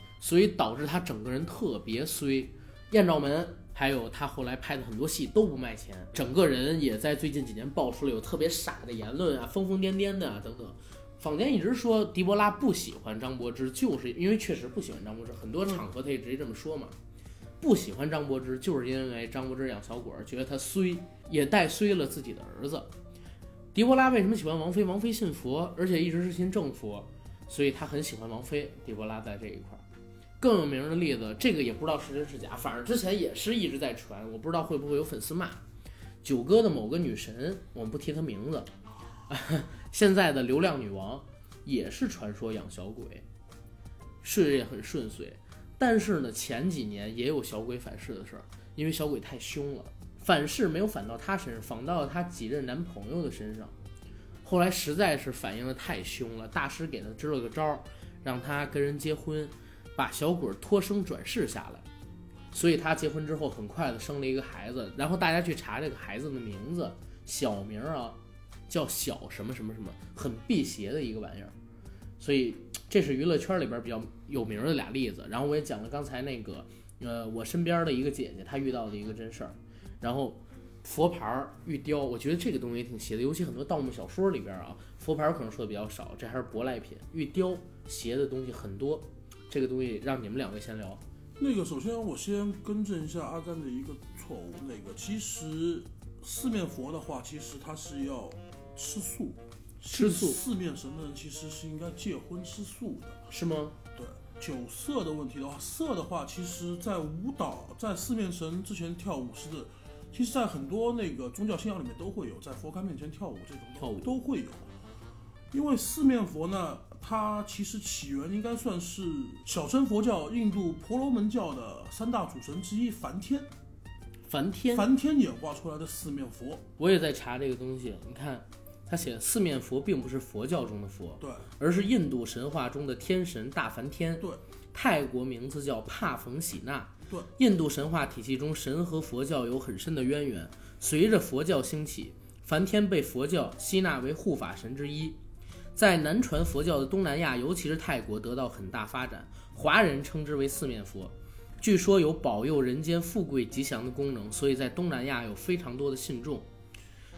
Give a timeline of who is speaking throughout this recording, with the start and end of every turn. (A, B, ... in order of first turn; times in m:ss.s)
0:00.2-0:17.0 A
0:17.6-0:22.9 A
0:23.7-0:29.8 A
0:30.4-0:35.6 A
0:36.2-0:38.7 A
0:39.3-0:43.2 A
0:44.2-0:53.7 A
0:54.4-1:01.8 A
1:02.5-1:08.2 A
1:08.7-1:11.5 A
1:12.2-1:31.0 A
1:31.4-1:43.2 B
1:39.9-1:40.4 A
1:43.3-1:43.8 A
1:44.0-1:54.6 B
1:53.8-1:54.2 A
1:55.5-2:03.5 B
2:04.3-2:04.9 A
2:04.7-2:06.6 B
2:06.8-2:25.2 A
2:11.2-2:11.5 B
2:25.8-2:36.5 A